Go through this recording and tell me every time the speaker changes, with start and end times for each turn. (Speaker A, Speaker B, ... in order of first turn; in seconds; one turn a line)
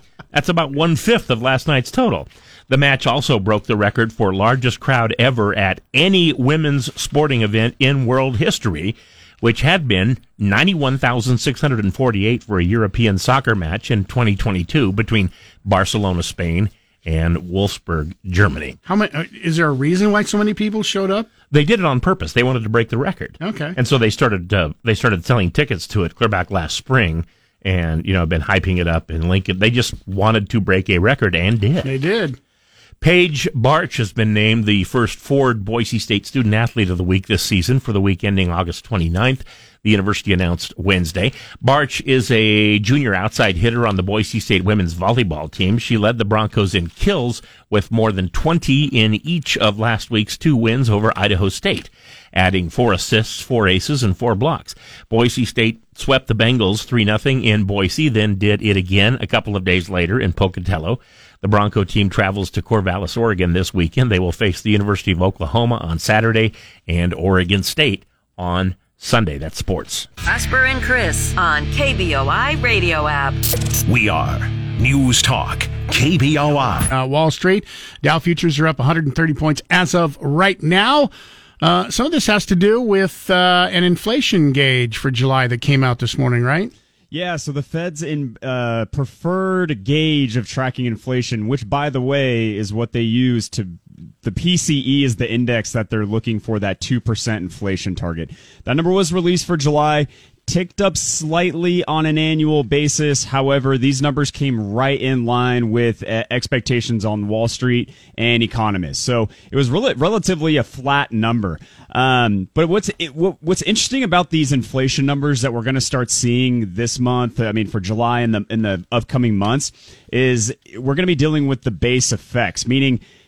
Speaker A: 0.3-18.8
Speaker B: 18.9-21.3
Speaker A: 21.5-31.9
Speaker B: 23.4-23.8
Speaker B: 31.8-32.4
Speaker A: 33.0-70.1
Speaker C: 70.3-73.4
Speaker D: 73.9-76.9
Speaker B: 76.9-81.1
Speaker B: 81.6-86.7
Speaker E: 87.1-123.0